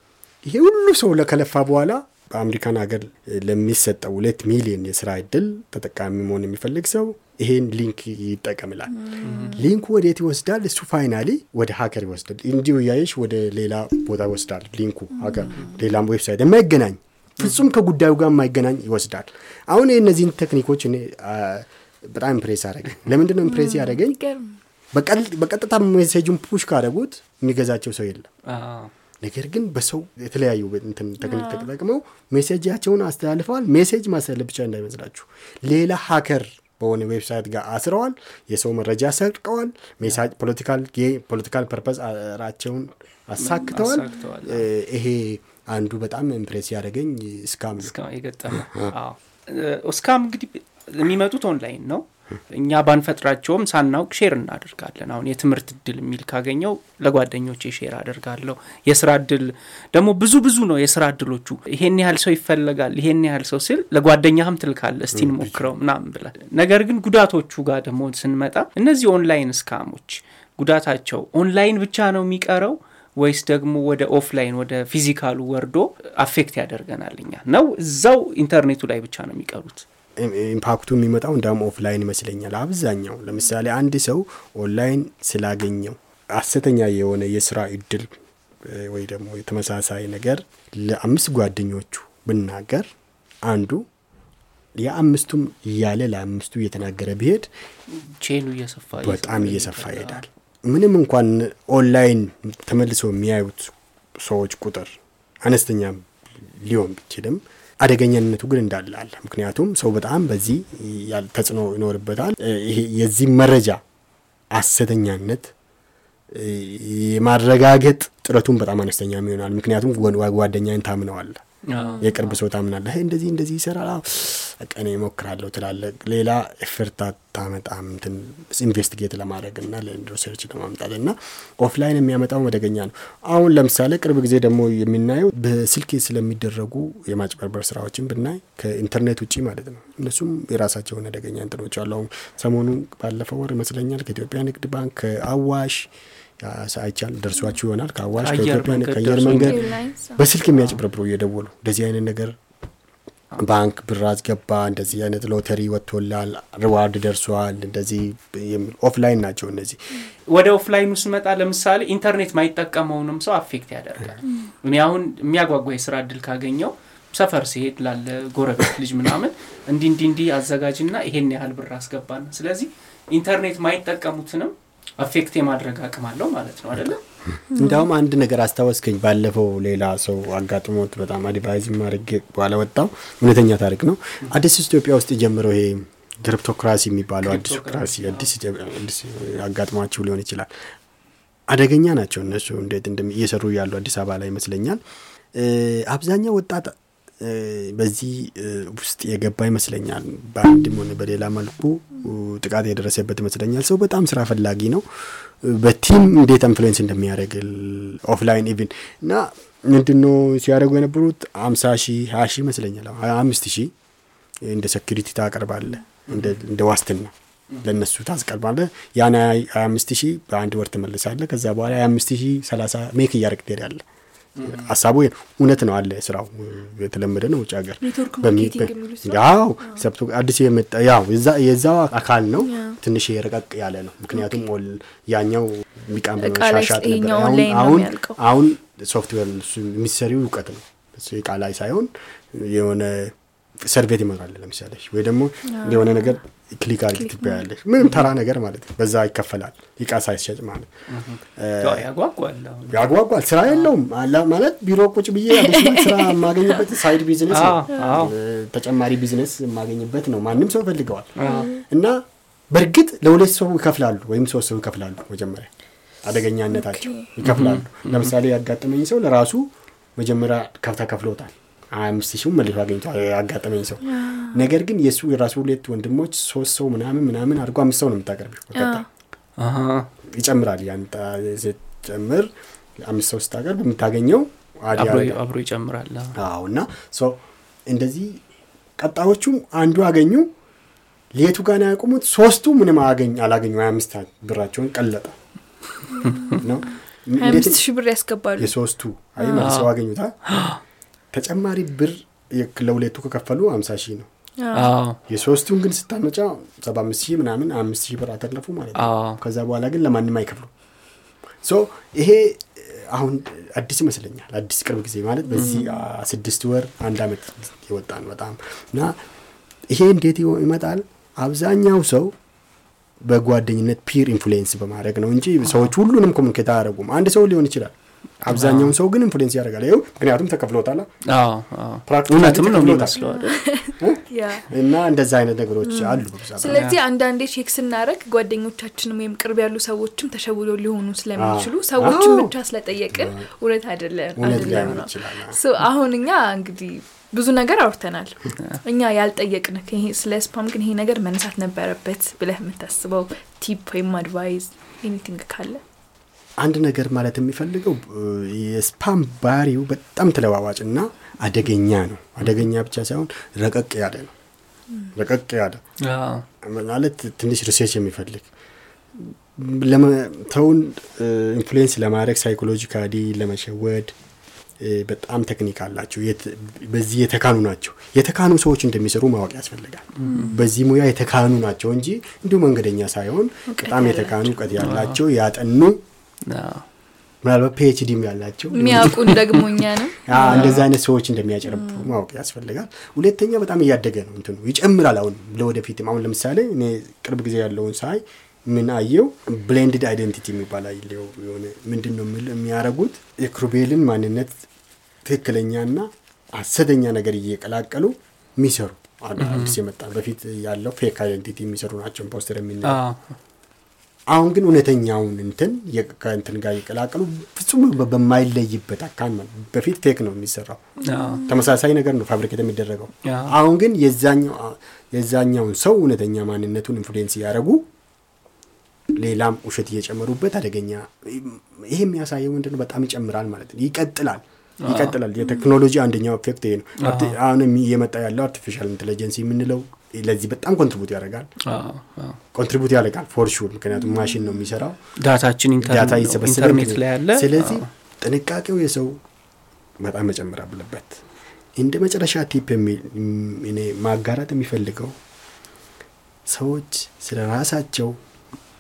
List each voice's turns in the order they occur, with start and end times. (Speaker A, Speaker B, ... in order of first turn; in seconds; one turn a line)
Speaker A: 0.4-24.2
Speaker B: 9.0-9.6
Speaker C: 9.2-9.5
Speaker B: 15.3-15.7
Speaker B: 23.4-24.6
Speaker A: 24.9-28.3
Speaker C: 28.5-28.9
Speaker A: 29.2-47.9
Speaker B: 31.2-31.7
Speaker C: 43.4-44.7
Speaker C: 47.8-79.8
Speaker A: 48.5-48.9
Speaker A: 65.1-65.7
Speaker A: 80.2-88.1
Speaker A: 88.6-92.9
Speaker A: 93.4-93.9
Speaker A: 94.8-97.5
Speaker C: 97.9-100.2
Speaker A: 99.0-113.8
Speaker A: 114.5-115.5
Speaker A: 116.3-121.5
Speaker C: 121.7-122.4
Speaker A: 122.0-145.9
Speaker A: 146.4-152.3
Speaker C: 148.2-149.7
Speaker B: 149.3-150.2
Speaker C: 150.6-150.8
Speaker A: 153.4-159.8
Speaker C: 160.3-177.0
Speaker B: 177.5-177.9
Speaker A: 177.6-190.5
Speaker C: 187.2-188.3
Speaker A: 191.5-194.8
Speaker A: 195.3-213.7
Speaker A: 214.4-223.8
Speaker C: 216.1-216.4
Speaker C: 224.4-224.7
Speaker A: 224.4-250.7
Speaker B: 227.8-229.8
Speaker B: 232.4-232.8
Speaker B: 234.2-234.4
Speaker B: 236.2-238.2
Speaker B: 245.5-246.2
Speaker B: 246.9-247.4
Speaker C: 247.8-248.1
Speaker C: 250.9-252.8
Speaker A: 251.4-251.9
Speaker A: 252.7-265.5
Speaker C: 253.5-253.7
Speaker B: 255.4-256.6
Speaker C: 257.3-258.1
Speaker B: 257.7-258.0
Speaker C: 261.2-261.5
Speaker B: 261.2-261.6
Speaker A: 266.0-278.9
Speaker B: 266.5-267.1
Speaker C: 267.2-268.1
Speaker B: 273.9-274.4
Speaker B: 278.6-278.8
Speaker C: 279.4-279.9
Speaker A: 280.1-285.2
Speaker C: 284.7-286.1
Speaker A: 286.2-288.2
Speaker A: 288.8-290.3
Speaker A: 291.2-295.2
Speaker A: 295.9-297.6
Speaker B: 296.0-296.4
Speaker C: 296.1-296.4
Speaker B: 297.2-298.5
Speaker A: 298.4-300.2
Speaker B: 299.2-299.5
Speaker C: 299.3-299.7
Speaker C: 300.3-300.6
Speaker A: 301.1-304.1
Speaker B: 304.4-304.7
Speaker C: 304.5-305.0
Speaker A: 305.1-310.5
Speaker C: 308.8-309.2
Speaker A: 311.4-319.0
Speaker B: 315.3-315.8
Speaker C: 315.4-315.7
Speaker A: 319.7-322.1
Speaker A: 323.0-330.9
Speaker C: 328.3-328.8
Speaker C: 331.1-333.4
Speaker A: 331.9-333.0
Speaker B: 332.9-334.5
Speaker A: 333.8-336.6
Speaker B: 335.7-355.6
Speaker C: 336.5-336.8
Speaker A: 341.2-342.3
Speaker A: 342.9-343.2
Speaker A: 344.2-345.4
Speaker A: 356.4-364.1
Speaker A: 364.9-365.6
Speaker C: 365.8-366.3
Speaker A: 366.4-368.3
Speaker A: 369.0-373.9
Speaker A: 374.6-385.8
Speaker C: 380.0-380.4
Speaker B: 380.1-380.4
Speaker B: 383.5-384.5
Speaker C: 384.6-385.0
Speaker C: 386.2-386.7
Speaker A: 387.2-404.4
Speaker B: 388.5-390.6
Speaker C: 390.2-390.7
Speaker B: 391.5-391.9
Speaker A: 405.1-412.8
Speaker C: 409.2-409.6
Speaker C: 412.6-413.2
Speaker A: 414.1-420.7
Speaker B: 420.8-421.4
Speaker C: 420.8-421.2
Speaker A: 421.2-427.6
Speaker C: 423.0-423.3
Speaker A: 429.0-441.3
Speaker C: 434.6-435.0
Speaker C: 436.8-437.2
Speaker C: 441.4-442.2
Speaker A: 442.3-444.8
Speaker B: 443.9-444.2
Speaker C: 445.0-447.7
Speaker A: 445.6-449.0
Speaker A: 449.8-451.0
Speaker A: 451.6-454.9
Speaker A: 456.3-458.0